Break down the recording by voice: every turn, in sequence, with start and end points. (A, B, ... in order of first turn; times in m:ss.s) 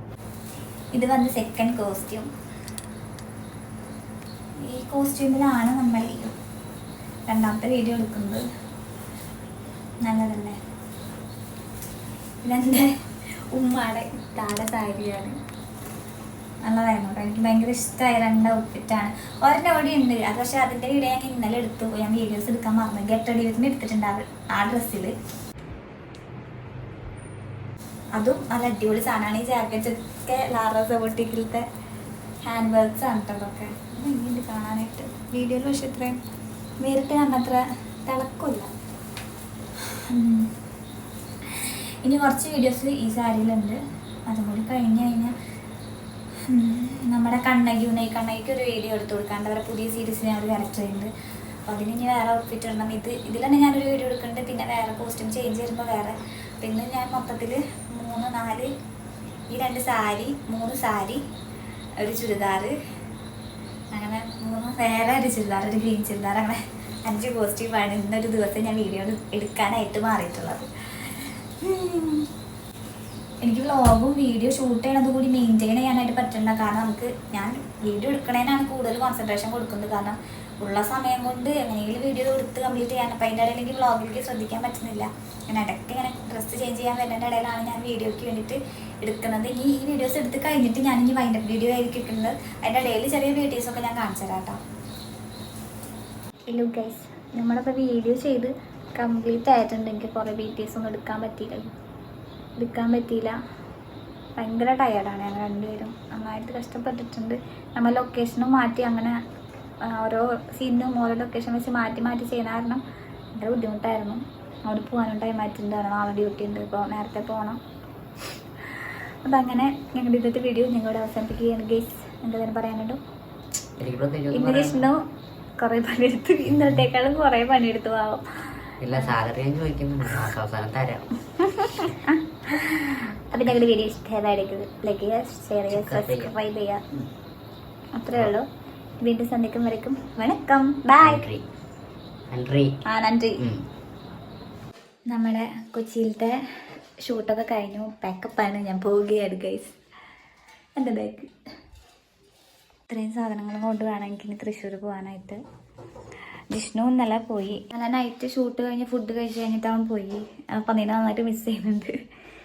0:00.9-0:02.3 A
0:04.6-0:06.4 A
0:07.3-0:08.4 A
0:10.0-0:10.6 A
0:12.4-0:13.0 A
0:13.5-0:15.4 A
0:16.6-0:25.2 A
0:28.2-0:31.6 A
0:32.4-0:36.2 A
0:36.8-0:38.7 A
0:39.9-0:40.5 A
0:41.6-0:45.4 A
0:46.5-0:51.1 A
0:51.7-0:58.7 A
0:59.5-1:01.2 A
1:02.0-1:02.8 A
1:03.9-1:12.3 A
1:13.4-1:34.6 A
1:36.5-1:41.7 A
1:42.6-1:43.4 A
1:44.4-1:49.2 A
1:49.9-1:52.8 A
1:53.4-1:57.6 A
1:59.2-2:03.0 A
2:03.8-2:04.9 B
2:04.3-2:05.0 A
2:05.6-2:08.2 A
2:08.8-2:11.1 B
2:11.4-2:16.8 A
2:15.7-2:16.4 B
2:18.0-2:18.5 A
2:19.0-2:21.2 A
2:21.0-2:21.4 B
2:22.3-2:22.8 B
2:22.8-2:23.4 A
2:25.1-2:26.3 A
2:27.0-2:29.8 A
2:30.8-2:31.3 A
2:32.9-2:35.4 A
2:36.5-2:41.9 A